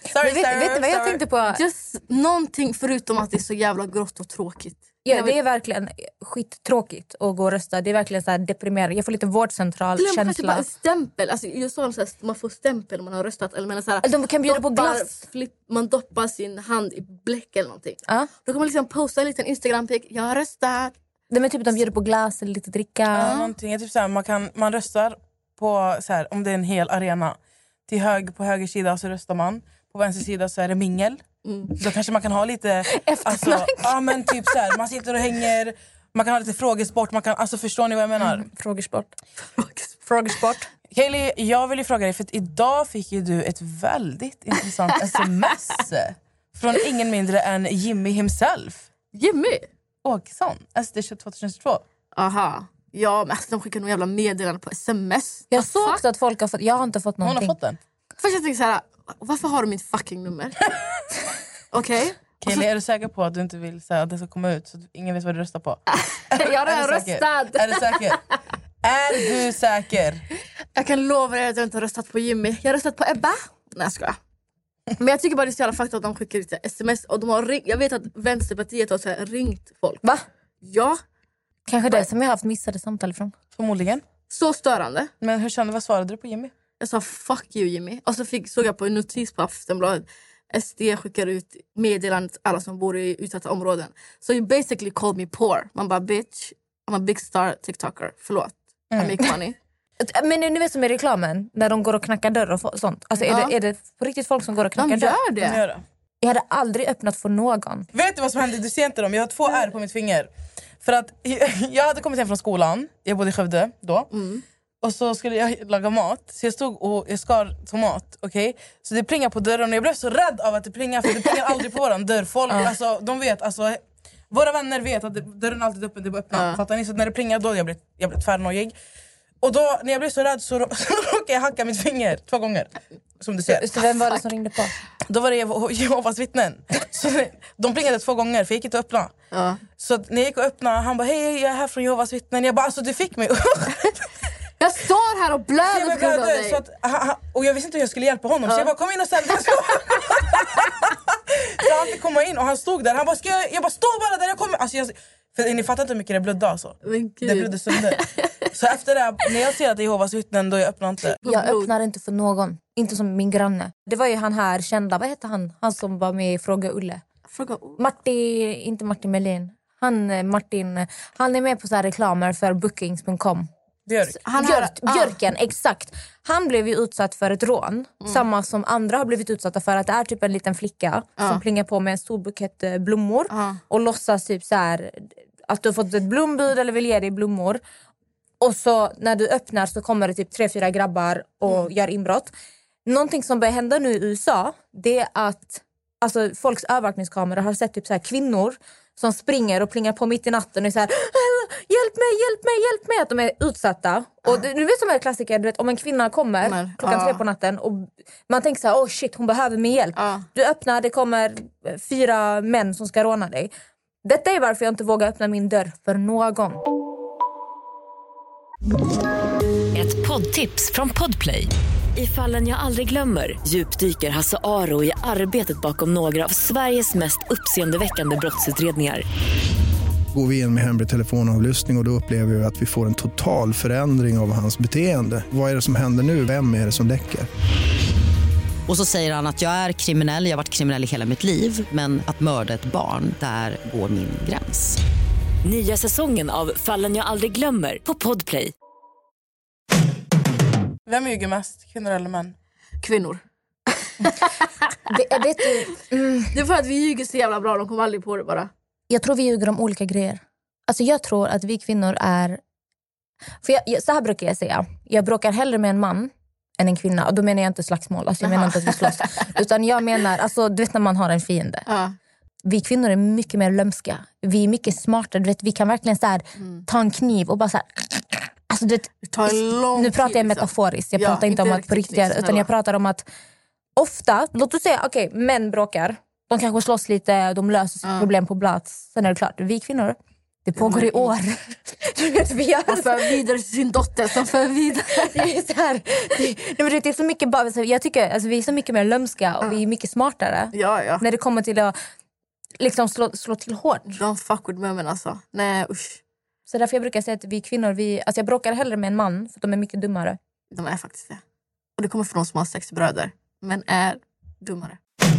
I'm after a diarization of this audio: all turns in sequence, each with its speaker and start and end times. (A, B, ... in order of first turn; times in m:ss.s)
0:00.1-0:01.2 A
0:00.1-0:01.6 B
0:01.5-0:05.4 C
0:05.0-0:10.6 B
0:10.0-0:20.9 C
0:14.0-0:15.2 B
0:21.3-0:23.4 B
0:23.1-0:31.2 A
0:23.2-0:23.5 C
0:31.4-0:31.8 C
0:31.8-0:38.5 A
0:32.9-0:34.5 B
0:38.2-0:39.2 B
0:39.4-0:40.4 C
0:40.1-0:40.7 B
0:40.9-0:48.9 A
0:44.9-0:45.2 C
0:49.1-0:49.7 C
0:50.0-0:51.8 A
0:52.2-0:56.0 C
0:55.5-0:57.6 B
0:57.2-0:57.8 A
0:58.2-1:00.6 C
1:01.7-1:02.7 C
1:02.4-1:08.2 A
1:05.9-1:08.4 C
1:08.8-1:10.2 A
1:10.8-1:14.2 C
1:15.0-1:20.0 C
1:20.6-1:21.0 C
1:21.7-1:23.3 B
1:23.6-1:24.0 A
1:24.3-1:25.1 C
1:25.2-1:26.5 A
1:26.8-1:39.6 C
1:38.9-1:39.2 A
1:40.0-1:45.2 B
1:43.3-1:43.6 C
1:44.8-1:45.6 C
1:45.4-1:45.8 A
1:46.2-1:47.9 B
1:47.9-1:54.1 A
1:54.1-1:54.4 C
1:54.8-2:08.8 A
2:06.3-2:06.6 C
2:09.4-2:13.7 A
2:13.5-2:14.8 B
2:15.1-2:19.1 A
2:19.3-2:19.6 C
2:19.8-2:24.0 A
2:24.6-2:26.6 C
2:25.6-2:38.0 A
2:36.8-2:38.5 C
2:38.5-2:41.2 A
2:41.2-2:41.7 C
2:41.2-2:47.0 B
2:47.3-2:47.8 C
2:47.8-2:53.5 B
2:53.9-2:54.2 A
2:54.2-3:07.6 B
2:54.2-2:55.2 C
3:03.3-3:03.6 C
3:08.4-3:12.3 B
3:12.9-3:33.5 B
3:26.4-3:27.2 C
3:30.0-3:30.3 C
3:34.0-3:36.6 B
3:39.7-3:49.0 D
3:50.1-3:57.3 E
3:58.7-4:04.8 F
4:05.4-4:08.5 D
4:10.9-4:12.4 A
4:12.8-4:13.2 C
4:14.0-4:14.8 C
4:14.9-4:16.3 B
4:16.3-4:18.5 C
4:18.9-4:22.4 B
4:23.4-4:31.7 B
4:28.2-4:29.3 C
4:31.7-4:32.0 C
4:32.4-4:43.0 B
4:36.4-4:36.6 C
4:39.0-4:42.5 C
4:43.8-4:53.2 B
4:47.8-4:48.1 C
4:50.6-4:51.1 C
4:52.7-4:55.2 C
4:55.0-5:01.7 B
5:00.5-5:01.0 C
5:02.6-5:04.0 B
5:04.0-5:06.0 C
5:06.5-5:10.2 B
5:10.5-5:11.2 C
5:11.8-5:14.8 C